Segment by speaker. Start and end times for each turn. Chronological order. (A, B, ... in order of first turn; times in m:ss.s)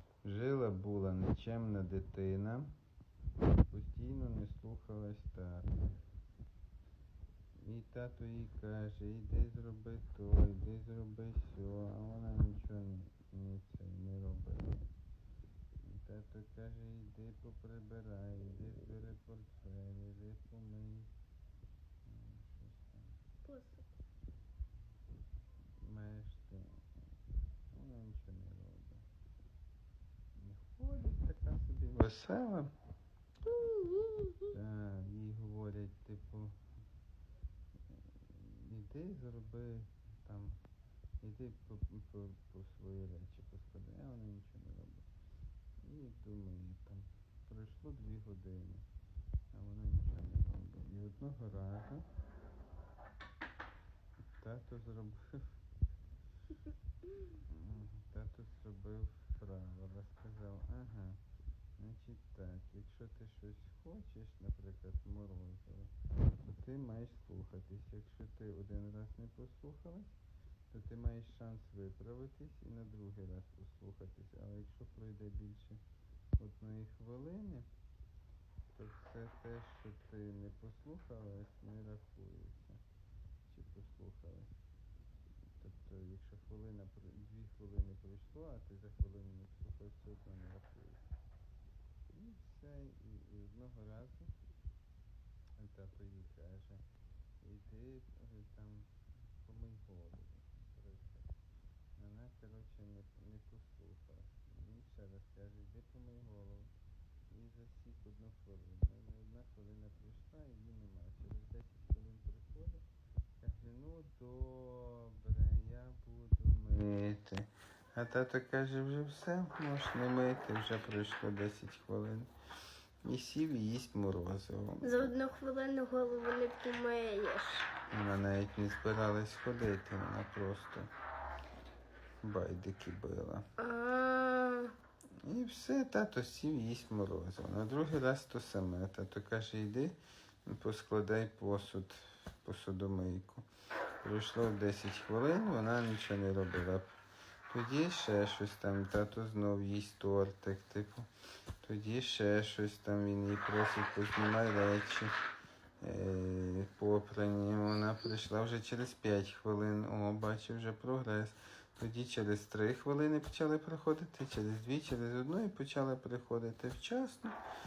0:00.2-0:02.7 A
0:03.7-0:05.7 A
0:07.6-0:14.9 A
0:15.8-0:21.1 A
0:22.0-0:23.2 A
0:23.4-0:23.8 B
0:25.8-0:26.8 A
0:27.7-0:29.0 A
0:30.4-0:32.7 A
0:33.5-0:34.5 B
0:34.5-0:36.6 A
0:37.9-0:40.6 A
0:41.2-0:45.1 A
0:45.8-0:48.8 A
0:49.5-0:52.0 A
0:54.3-0:55.6 A
0:57.3-1:01.2 A
1:01.8-1:10.2 A
1:10.7-1:15.8 A
1:16.4-1:17.7 A
1:18.7-1:22.8 A
1:23.5-1:24.5 A
1:25.6-1:31.0 A
1:32.1-1:34.3 A
1:35.6-1:36.8 A
1:37.4-1:41.3 A
1:42.0-1:46.7 A
1:47.3-1:52.8 A
1:53.4-2:02.3 A
2:03.0-2:05.1 A
2:04.8-2:07.7 B
2:07.9-2:10.9 A
2:12.2-2:13.4 A
2:13.6-2:14.7 B
2:15.2-2:23.4 A
2:24.0-2:26.9 A
2:27.5-2:31.1 A
2:31.6-2:35.1 A
2:35.8-2:47.4 A